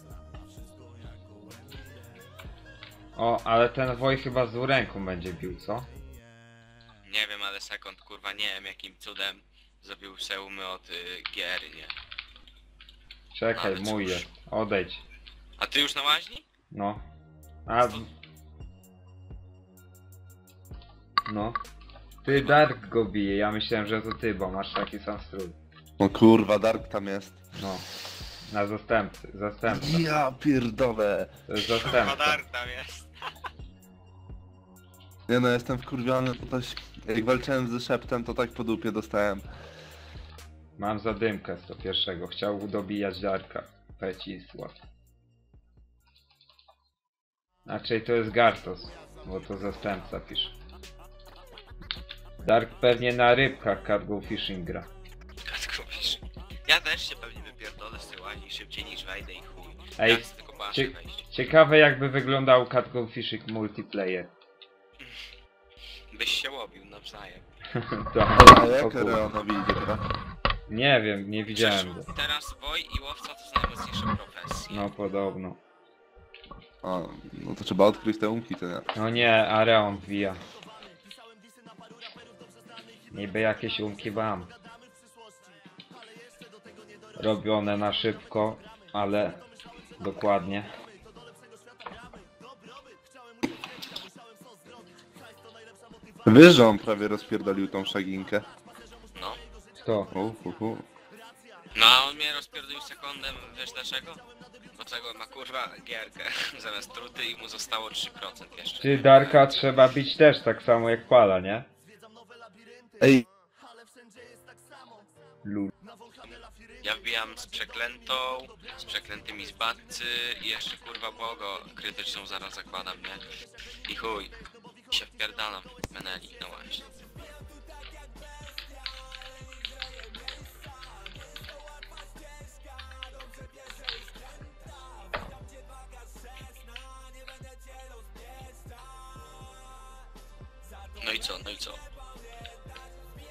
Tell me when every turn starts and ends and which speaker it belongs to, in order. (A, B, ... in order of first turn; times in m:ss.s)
0:03.1-0:05.9 A
0:07.0-0:11.9 B
0:13.3-0:15.0 A
0:13.5-0:14.3 B
0:15.6-0:16.4 B
0:16.7-0:17.0 A
0:17.7-0:18.1 A
0:21.3-0:21.6 A
0:22.2-0:25.6 A
0:22.2-0:22.6 B
0:26.0-0:27.4 C
0:27.5-0:27.8 A
0:28.5-0:30.1 A
0:29.7-0:31.3 C
0:31.5-0:32.4 A
0:31.8-0:33.1 B
0:35.3-0:39.4 C
0:40.8-0:44.8 A
0:47.6-0:50.5 A
0:52.4-0:54.9 A
0:55.4-1:01.2 B
1:00.0-1:04.3 A
1:06.1-1:07.4 B
1:07.7-1:09.4 A
1:08.3-1:10.0 C
1:10.7-1:12.1 A
1:11.5-1:14.8 B
1:14.7-1:15.6 A
1:16.8-1:18.8 C
1:18.9-1:20.4 A
1:23.1-1:24.5 A
1:27.2-1:29.4 A
1:30.0-1:30.7 A
1:36.2-1:38.4 C
1:39.1-1:39.4 B
1:39.8-1:40.1 A
1:40.1-1:40.8 C
1:41.7-1:44.2 B
1:44.7-1:49.9 B
1:48.8-1:51.7 A
1:53.0-1:53.2 C
1:55.4-1:55.7 A
1:56.8-2:03.2 B
2:03.9-2:04.3 B
2:04.9-2:06.9 B
2:21.0-2:21.8 B